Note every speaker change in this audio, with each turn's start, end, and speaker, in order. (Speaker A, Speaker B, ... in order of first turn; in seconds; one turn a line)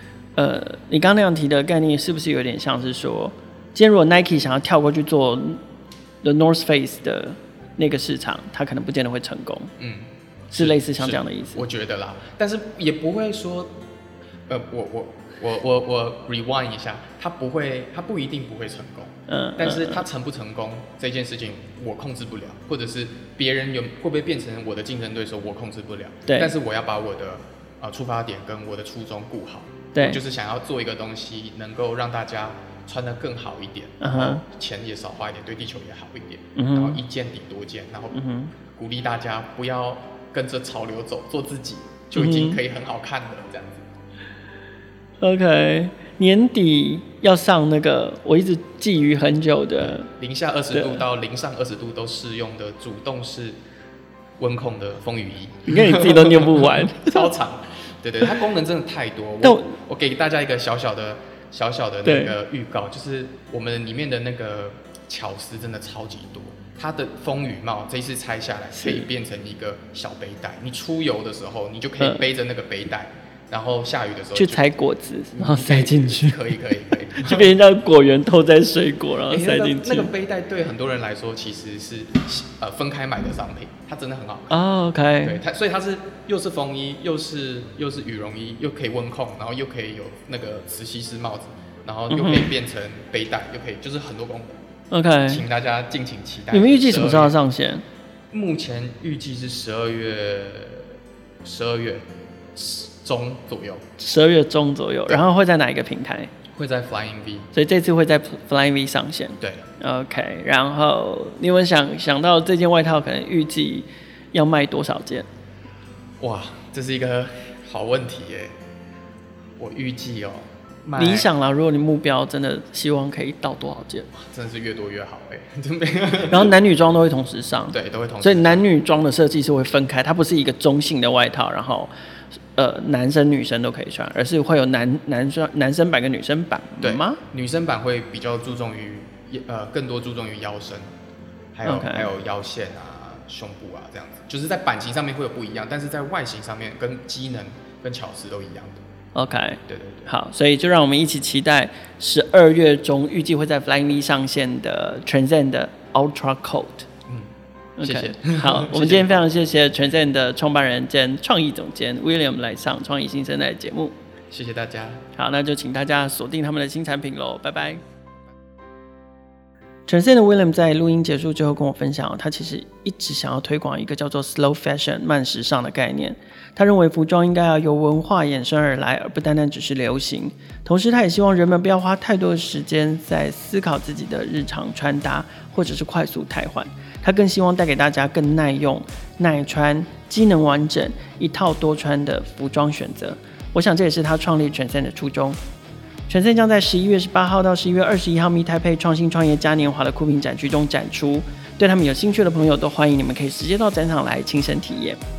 Speaker A: 0.4-5.6
Speaker A: 6.2-9.7
Speaker B: 9.8-13.7
Speaker A: 10.5-11.6
Speaker B: 14.5-43.9
Speaker A: 19.3-20.1
Speaker A: 26.3-26.5
Speaker A: 29.9-30.2
Speaker A: 34.0-34.4
Speaker A: 36.5-37.0
Speaker A: 38.1-38.5
Speaker A: 42.1-42.6
Speaker A: 45.2-50.1
Speaker B: 49.8-53.5
Speaker A: 50.7-51.0
Speaker B: 54.4-74.7
Speaker A: 55.7-57.3
Speaker A: 59.4-59.7
Speaker A: 62.0-62.3
Speaker A: 68.8-69.0
Speaker A: 72.0-72.2
Speaker A: 74.3-76.4
Speaker B: 75.3-77.5
Speaker A: 77.0-80.1
Speaker B: 79.3-84.6
Speaker A: 84.5-85.4
Speaker B: 85.2-94.6
Speaker A: 92.1-92.5
Speaker A: 94.9-95.5
Speaker B: 95.3-97.4
Speaker A: 96.5-97.8
Speaker B: 98.3-103.9
Speaker A: 104.0-106.3
Speaker B: 106.5-107.5
Speaker A: 107.5-115.3
Speaker B: 109.4-109.7
Speaker B: 116.2-118.5
Speaker B: 119.6-121.3
Speaker A: 121.0-124.1
Speaker B: 124.1-126.5
Speaker A: 126.3-131.9
Speaker B: 127.7-128.6
Speaker A: 132.6-137.2
Speaker B: 136.8-140.9
Speaker B: 141.5-148.8
Speaker A: 141.6-142.1
Speaker A: 149.1-156.9
Speaker B: 149.7-150.1
Speaker B: 157.1-159.2
Speaker A: 157.8-163.9
Speaker B: 164.3-165.0
Speaker A: 165.1-167.8
Speaker A: 169.9-195.4
Speaker A: 196.1-205.0